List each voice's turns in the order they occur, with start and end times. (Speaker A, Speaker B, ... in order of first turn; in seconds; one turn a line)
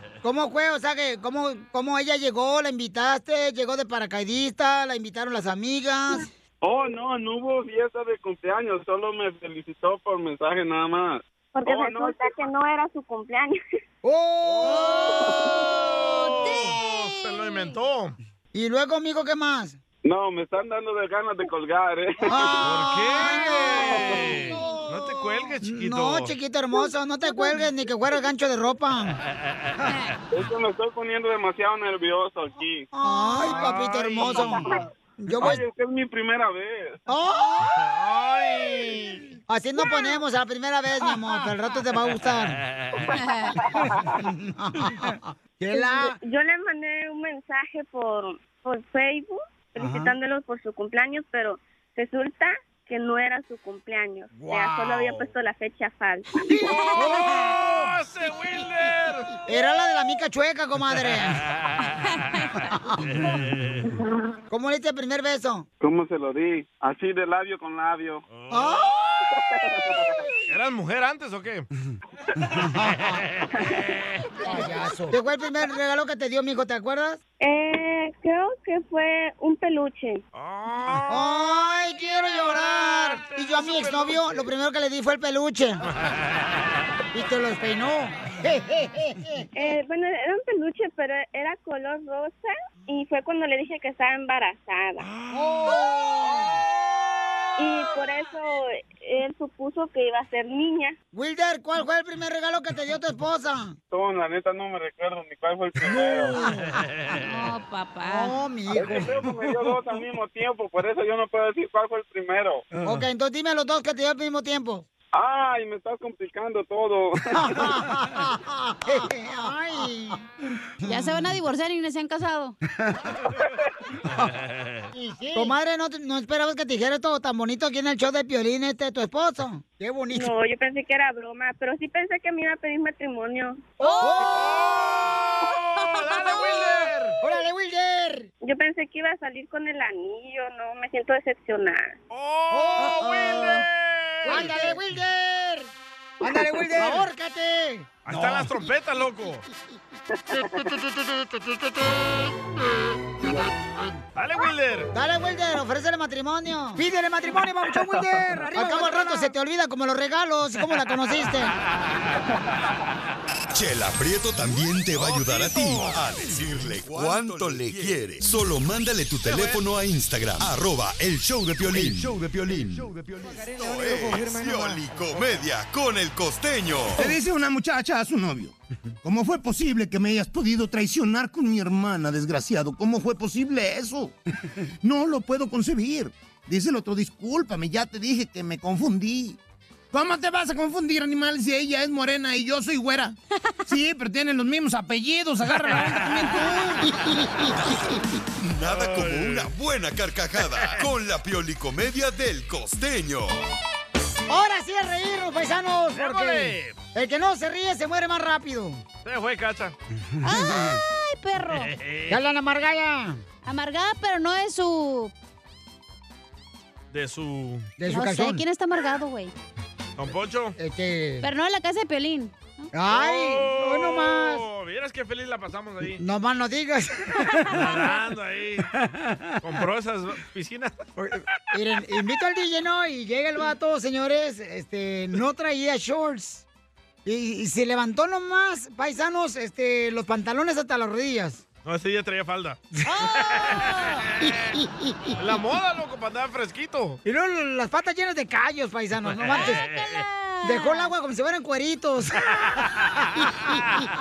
Speaker A: 0.2-6.3
Speaker B: 6.6-12.3
Speaker C: 11.5-13.6
Speaker A: 14.0-15.1
Speaker D: 14.6-17.8
Speaker E: 16.3-18.1
Speaker A: 18.5-19.8
Speaker B: 20.0-22.7
Speaker A: 22.2-29.2
Speaker E: 22.6-26.3
Speaker D: 29.8-30.1
Speaker B: 30.3-32.9
Speaker A: 32.9-35.6
Speaker D: 33.1-33.5
Speaker E: 33.6-34.2
Speaker B: 33.6-34.8
Speaker B: 35.4-37.0
Speaker A: 37.1-37.9
Speaker E: 37.7-39.2
Speaker A: 39.5-42.6
Speaker E: 42.5-43.0
Speaker D: 43.1-43.6
Speaker A: 44.0-46.2
Speaker C: 45.7-56.7
Speaker A: 49.8-50.1
Speaker A: 54.3-55.2
Speaker A: 56.5-57.7
Speaker D: 56.6-57.5
Speaker E: 57.4-59.4
Speaker A: 59.5-61.4
Speaker E: 61.4-62.2
Speaker D: 62.0-62.5
Speaker E: 63.0-63.9
Speaker A: 64.5-65.7
Speaker B: 65.8-68.2
Speaker E: 68.3-68.9
Speaker A: 68.5-68.9
Speaker B: 69.3-70.2
Speaker E: 70.5-71.7
Speaker A: 72.5-73.2
Speaker E: 73.1-73.4
Speaker A: 74.4-77.2
Speaker C: 77.4-80.2
Speaker E: 80.3-81.3
Speaker A: 81.1-85.8
Speaker E: 85.9-86.4
Speaker A: 87.1-89.5
Speaker C: 89.5-95.1
Speaker E: 95.1-95.6
Speaker A: 95.3-96.5
Speaker C: 97.6-101.0
Speaker A: 101.1-103.8
Speaker B: 103.9-106.5
Speaker A: 105.8-106.8
Speaker E: 106.9-107.2
Speaker D: 107.2-108.3
Speaker A: 108.0-109.7
Speaker B: 108.7-112.7
Speaker A: 112.8-114.8
Speaker B: 115.1-117.6
Speaker A: 117.3-120.2
Speaker A: 120.8-121.3
Speaker D: 120.8-122.6
Speaker E: 124.2-124.9
Speaker A: 124.9-130.3
Speaker C: 130.1-133.6
Speaker D: 133.8-136.9
Speaker A: 133.8-135.0
Speaker E: 134.5-137.2
Speaker A: 137.2-138.3
Speaker C: 138.4-142.0
Speaker E: 142.1-144.5
Speaker A: 142.5-143.6
Speaker D: 142.8-143.6
Speaker A: 144.2-145.7
Speaker A: 146.2-148.5
Speaker E: 148.0-149.4
Speaker E: 154.2-154.9
Speaker A: 154.9-161.6
Speaker D: 158.6-159.2
Speaker F: 163.5-177.1
Speaker E: 164.9-166.1
Speaker E: 169.2-169.6
Speaker G: 176.9-184.1
Speaker G: 184.8-189.4
Speaker G: 189.9-196.9
Speaker F: 198.4-203.5
Speaker E: 198.7-199.5
Speaker E: 200.5-200.9
Speaker A: 204.3-208.8
Speaker E: 205.9-206.8
Speaker E: 209.0-209.7
Speaker A: 210.2-210.8
Speaker D: 210.2-211.7
Speaker E: 211.5-212.2
Speaker A: 212.1-213.2
Speaker D: 213.4-215.1
Speaker E: 216.9-217.7
Speaker A: 217.8-218.4
Speaker D: 217.9-219.3
Speaker E: 220.0-220.5
Speaker A: 220.6-221.3
Speaker D: 221.2-222.7
Speaker A: 222.7-224.4
Speaker E: 222.9-226.0
Speaker A: 226.0-227.6
Speaker D: 227.2-227.9
Speaker E: 227.5-228.7
Speaker E: 229.4-230.9
Speaker A: 231.0-236.4
Speaker A: 237.0-241.4
Speaker E: 241.6-242.6
Speaker D: 242.8-244.1
Speaker E: 243.1-244.5
Speaker E: 245.2-247.0
Speaker A: 247.0-249.6
Speaker E: 249.1-250.0
Speaker D: 249.3-250.9
Speaker A: 250.4-252.3
Speaker E: 252.8-253.6